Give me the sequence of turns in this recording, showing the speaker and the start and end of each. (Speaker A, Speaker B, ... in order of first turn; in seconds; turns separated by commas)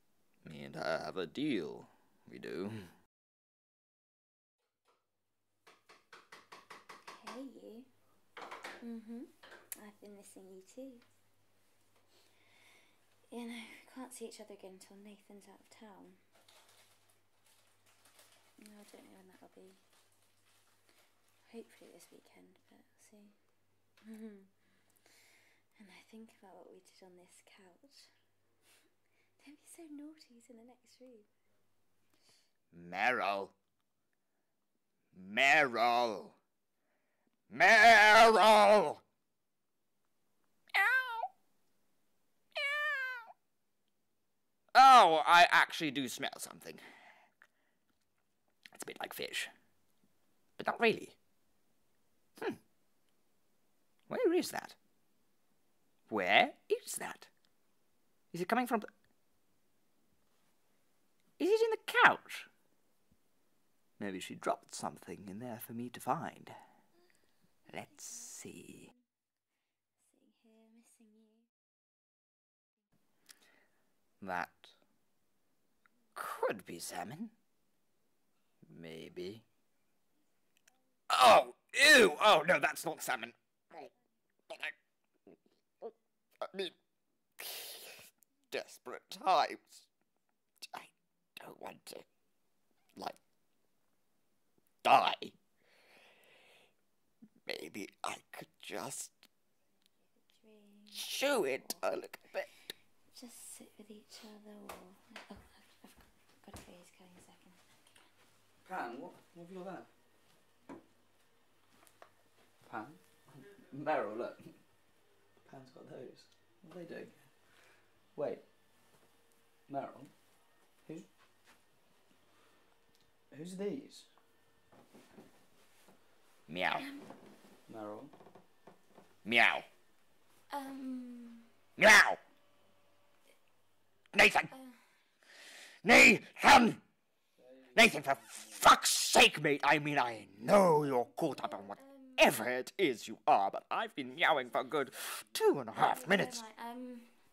Speaker A: 0.4-2.9, Speaker B: 7.1-7.9, Speaker B: 8.8-11.0, Speaker B: 13.3-16.2, Speaker B: 18.6-19.8, Speaker B: 21.5-23.4, Speaker B: 24.0-24.5, Speaker B: 25.8-28.1, Speaker B: 29.4-31.3, Speaker A: 32.7-33.5, Speaker A: 35.1-36.4, Speaker A: 37.5-39.0, Speaker A: 40.8-41.3, Speaker A: 42.6-43.3, Speaker A: 44.7-46.8, Speaker A: 48.7-49.5, Speaker A: 50.6-51.2, Speaker A: 54.1-54.8, Speaker A: 56.1-57.3, Speaker A: 58.3-58.9, Speaker A: 61.4-62.5, Speaker A: 64.0-66.6, Speaker A: 67.7-68.9, Speaker B: 70.0-71.5, Speaker A: 74.2-74.7, Speaker A: 76.2-77.3, Speaker A: 78.6-79.4, Speaker A: 81.1-83.9, Speaker A: 84.5-84.7, Speaker A: 86.4-86.8, Speaker A: 87.4-89.9, Speaker A: 90.6-92.1, Speaker A: 94.8-95.4, Speaker A: 97.5-99.2, Speaker B: 100.3-101.8, Speaker A: 100.9-102.5, Speaker B: 103.1-107.6, Speaker C: 108.6-109.9, Speaker C: 112.7-114.6, Speaker C: 115.5-117.3, Speaker C: 118.2-118.4, Speaker C: 119.7-120.1, Speaker C: 123.3-124.1, Speaker A: 126.5-126.9, Speaker B: 126.8-127.0, Speaker C: 127.7-128.1, Speaker A: 129.2-129.7, Speaker B: 130.5-131.5, Speaker A: 131.8-132.2, Speaker A: 134.1-134.5, Speaker A: 135.8-136.8, Speaker C: 137.4-138.5, Speaker A: 137.7-146.4, Speaker B: 141.2-142.3, Speaker B: 145.8-147.2